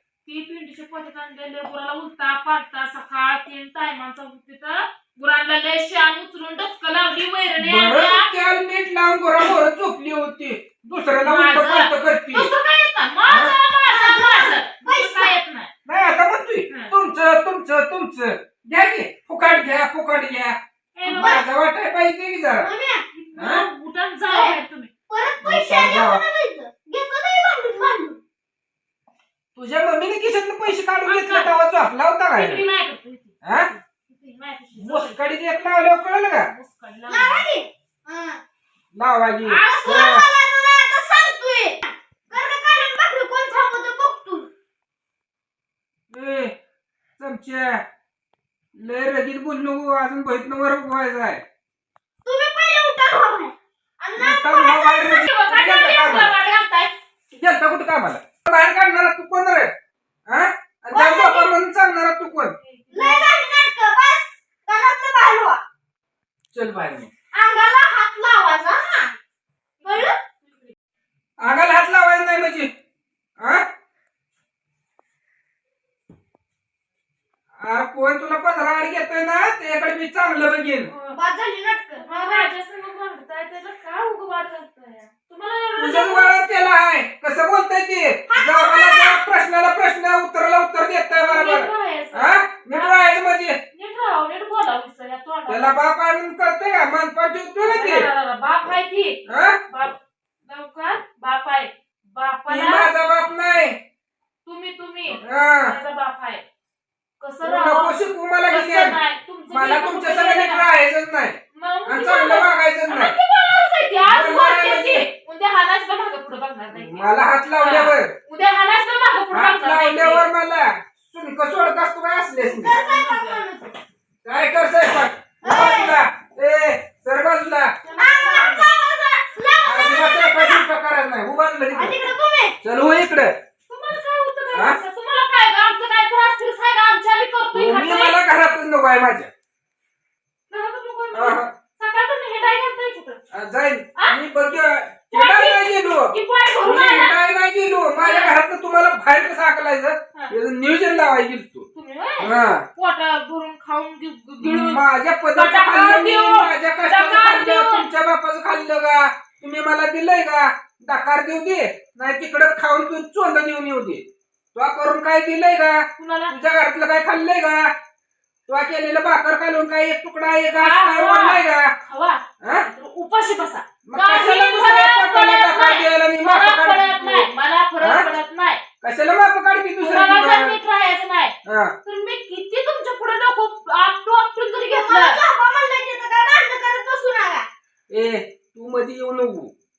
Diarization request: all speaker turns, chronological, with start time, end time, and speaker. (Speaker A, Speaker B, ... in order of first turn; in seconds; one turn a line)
Speaker A: 0.2-8.3
Speaker B: 7.6-12.5
Speaker A: 11.2-15.7
Speaker B: 13.3-13.5
Speaker C: 13.8-15.3
Speaker B: 15.8-20.6
Speaker A: 20.9-21.4
Speaker C: 21.1-21.4
Speaker B: 21.1-22.7
Speaker C: 22.6-23.0
Speaker A: 23.1-24.9
Speaker B: 23.4-23.6
Speaker C: 24.3-24.5
Speaker C: 25.1-28.2
Speaker B: 25.4-26.2
Speaker B: 29.5-32.6
Speaker A: 31.0-31.5
Speaker A: 32.3-35.2
Speaker B: 33.4-33.7
Speaker B: 34.8-36.5
Speaker A: 36.2-37.4
Speaker C: 37.1-38.4
Speaker B: 38.9-40.2
Speaker A: 39.4-39.9
Speaker C: 39.6-44.5
Speaker B: 46.1-46.5
Speaker B: 47.2-47.8
Speaker B: 48.7-51.4
Speaker C: 52.2-55.2
Speaker B: 54.2-56.3
Speaker A: 55.1-56.9
Speaker B: 57.3-59.7
Speaker B: 60.3-62.5
Speaker C: 60.9-61.5
Speaker A: 62.6-63.3
Speaker C: 62.9-65.6
Speaker B: 66.5-67.1
Speaker C: 67.3-69.2
Speaker A: 69.8-70.7
Speaker C: 69.8-70.1
Speaker B: 71.4-72.7
Speaker B: 77.6-80.9
Speaker A: 80.9-81.2
Speaker C: 81.1-82.5
Speaker A: 81.9-86.3
Speaker B: 85.8-93.6
Speaker C: 88.3-89.2
Speaker A: 91.1-92.9
Speaker A: 93.7-95.8
Speaker B: 95.5-98.1
Speaker A: 97.6-99.2
Speaker B: 99.2-99.6
Speaker A: 99.7-102.9
Speaker B: 102.5-103.8
Speaker A: 104.5-106.4
Speaker B: 105.2-105.8
Speaker A: 107.2-107.9
Speaker B: 107.4-109.0
Speaker A: 108.5-110.7
Speaker B: 109.5-113.2
Speaker A: 111.5-117.0
Speaker B: 114.1-115.0
Speaker B: 116.7-118.1
Speaker A: 117.6-120.2
Speaker B: 119.3-122.7
Speaker C: 122.4-123.8
Speaker A: 122.7-123.4
Speaker B: 124.2-127.7
Speaker C: 125.4-126.0
Speaker A: 127.8-128.7
Speaker C: 127.9-130.7
Speaker B: 129.6-132.0
Speaker C: 131.7-132.6
Speaker B: 132.6-133.3
Speaker A: 133.7-138.2
Speaker B: 134.5-134.8
Speaker B: 137.5-139.3
Speaker A: 140.5-143.2
Speaker B: 141.1-141.5
Speaker B: 143.3-151.7
Speaker A: 145.1-147.1
Speaker A: 147.9-148.3
Speaker A: 151.7-154.8
Speaker B: 152.2-152.6
Speaker B: 154.4-164.0
Speaker A: 155.3-157.9
Speaker B: 164.5-167.7
Speaker A: 166.0-166.3
Speaker B: 168.5-171.7
Speaker A: 170.5-178.6
Speaker B: 172.4-172.7
Speaker B: 173.8-177.3
Speaker B: 177.8-178.1
Speaker B: 178.8-180.6
Speaker A: 179.8-181.3
Speaker B: 181.4-181.7
Speaker A: 181.8-185.2
Speaker C: 184.7-187.5
Speaker B: 187.9-189.5